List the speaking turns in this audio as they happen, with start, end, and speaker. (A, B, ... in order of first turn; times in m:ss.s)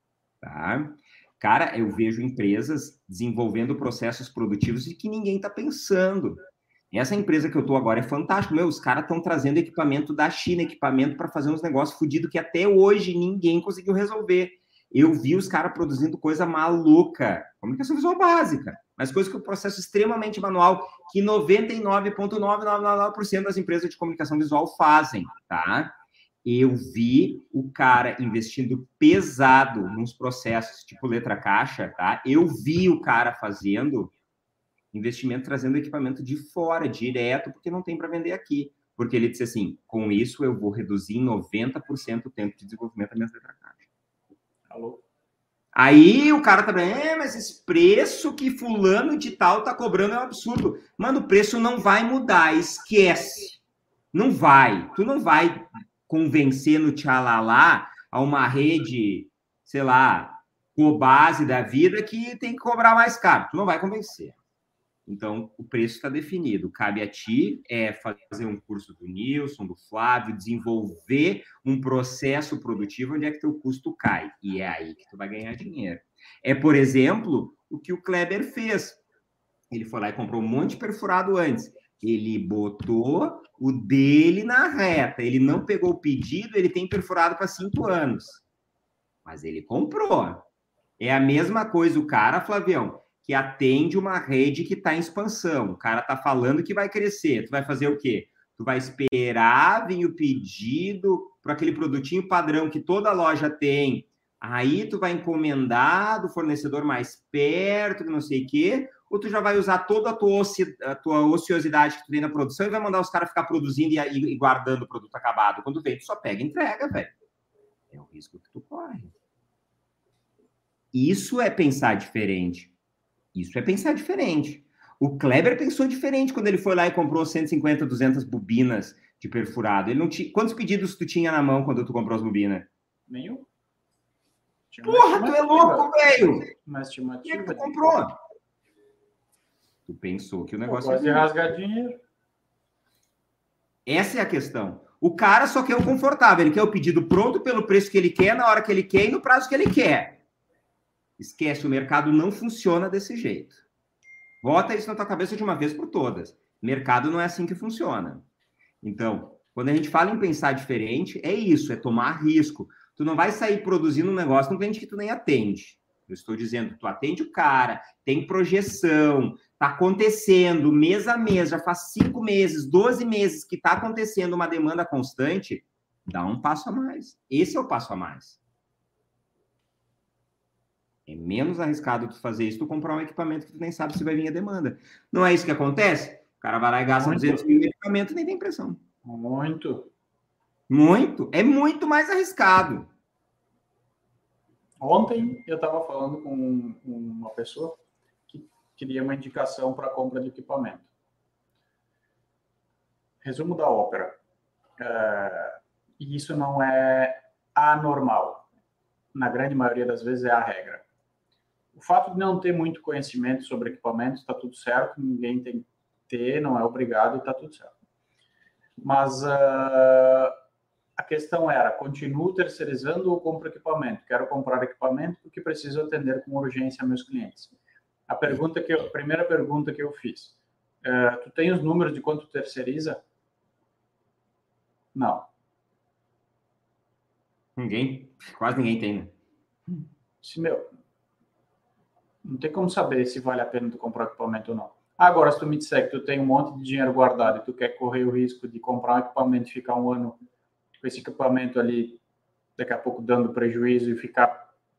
0:00.4-0:34.1 A
0:34.9-0:43.9 A
0:44.7-0:45.0 B
0:45.7-0:53.6 A
0:54.1-1:04.4 A
1:05.1-1:19.0 A
1:19.7-1:28.4 A
1:29.2-1:30.5 A
1:31.0-1:57.1 A
1:57.9-1:59.1 A
2:00.9-2:02.7 A
2:03.3-2:12.7 A
2:13.1-2:13.5 B
2:14.7-2:17.8 B
2:14.8-2:16.5 A
2:17.2-2:18.2 A
2:19.8-2:21.3 A
2:20.6-2:22.0 B
2:23.8-2:30.2 A
2:31.2-2:33.6 A
2:34.4-2:38.2 A
2:38.8-2:58.4 A
3:01.1-3:08.8 A
3:07.0-3:07.5 B
3:09.0-3:09.9 B
3:10.7-3:12.9 A
3:14.8-3:17.8 B
3:18.3-3:20.9 B
3:23.2-3:24.2 B
3:24.8-3:28.4 B
3:29.1-3:30.8 B
3:31.7-3:37.7 B
3:38.8-3:40.3 B
3:41.0-3:47.5 B
3:48.1-3:53.0 B
3:54.9-3:55.3 B
3:57.6-3:59.1 A
4:00.2-4:00.7 B
4:02.2-4:10.2 B
4:10.8-4:12.0 B
4:12.6-4:14.4 B